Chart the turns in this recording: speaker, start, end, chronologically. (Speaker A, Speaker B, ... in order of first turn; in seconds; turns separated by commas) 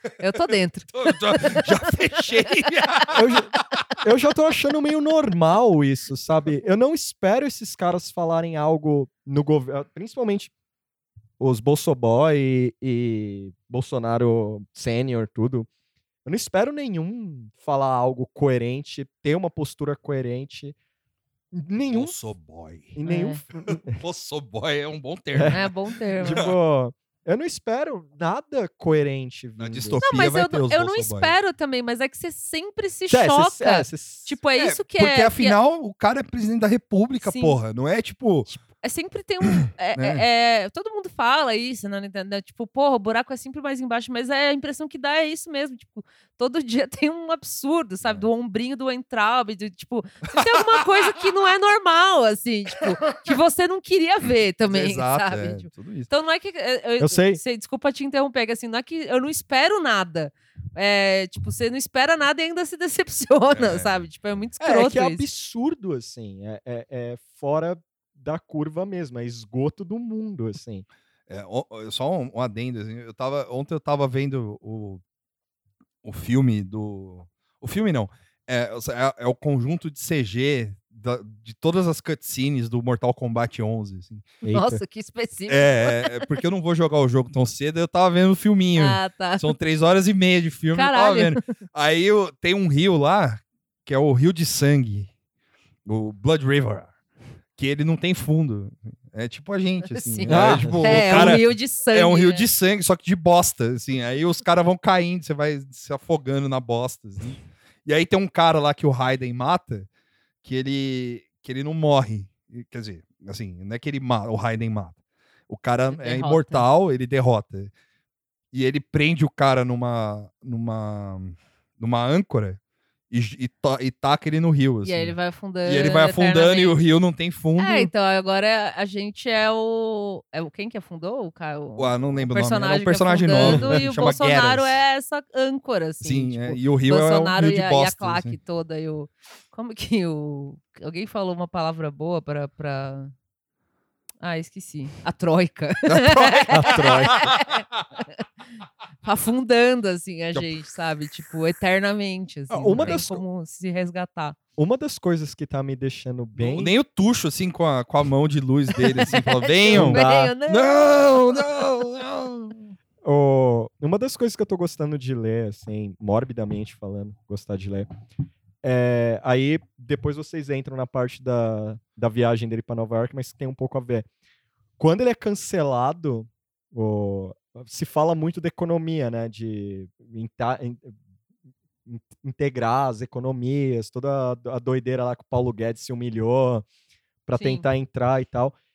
Speaker A: 0.2-2.5, Speaker B: 0.9-3.6, Speaker C: 3.1-10.5, Speaker C: 11.4-15.7, Speaker C: 16.2-20.8, Speaker C: 21.5-22.1, Speaker B: 21.9-22.9, Speaker C: 22.9-24.0, Speaker A: 23.0-23.4, Speaker B: 23.7-26.5, Speaker A: 25.5-26.4, Speaker C: 26.2-30.0, Speaker B: 29.6-31.3, Speaker A: 30.0-35.6, Speaker C: 33.1-34.3, Speaker B: 34.5-38.5, Speaker A: 37.2-37.6, Speaker A: 38.5-65.3, Speaker B: 40.0-40.2, Speaker B: 54.7-56.1, Speaker C: 57.0-57.4, Speaker B: 63.5-64.1, Speaker C: 64.6-70.8, Speaker B: 71.3-75.0, Speaker B: 76.0-84.3, Speaker C: 84.4-84.8, Speaker A: 84.5-86.3, Speaker B: 85.5-95.1, Speaker A: 88.8-89.5, Speaker A: 90.7-91.4, Speaker B: 95.8-96.9, Speaker B: 97.5-109.9, Speaker A: 99.9-102.5, Speaker C: 100.3-101.4, Speaker B: 110.4-115.0, Speaker B: 115.5-117.7, Speaker A: 115.9-116.7, Speaker B: 118.5-122.6, Speaker B: 123.1-127.9, Speaker A: 124.8-126.8, Speaker A: 127.6-143.1, Speaker B: 131.8-134.8, Speaker C: 133.4-133.8, Speaker B: 136.0-138.3, Speaker A: 144.2-147.6, Speaker B: 145.8-147.5, Speaker C: 146.5-147.2, Speaker A: 149.0-154.4, Speaker C: 152.5-153.2, Speaker B: 152.7-153.0, Speaker C: 154.6-156.7, Speaker B: 156.3-162.7, Speaker A: 158.8-161.1, Speaker C: 159.7-160.3, Speaker C: 163.0-167.9, Speaker C: 168.6-174.1, Speaker C: 174.8-180.9, Speaker C: 181.8-186.7, Speaker C: 187.2-188.6, Speaker A: 187.3-187.7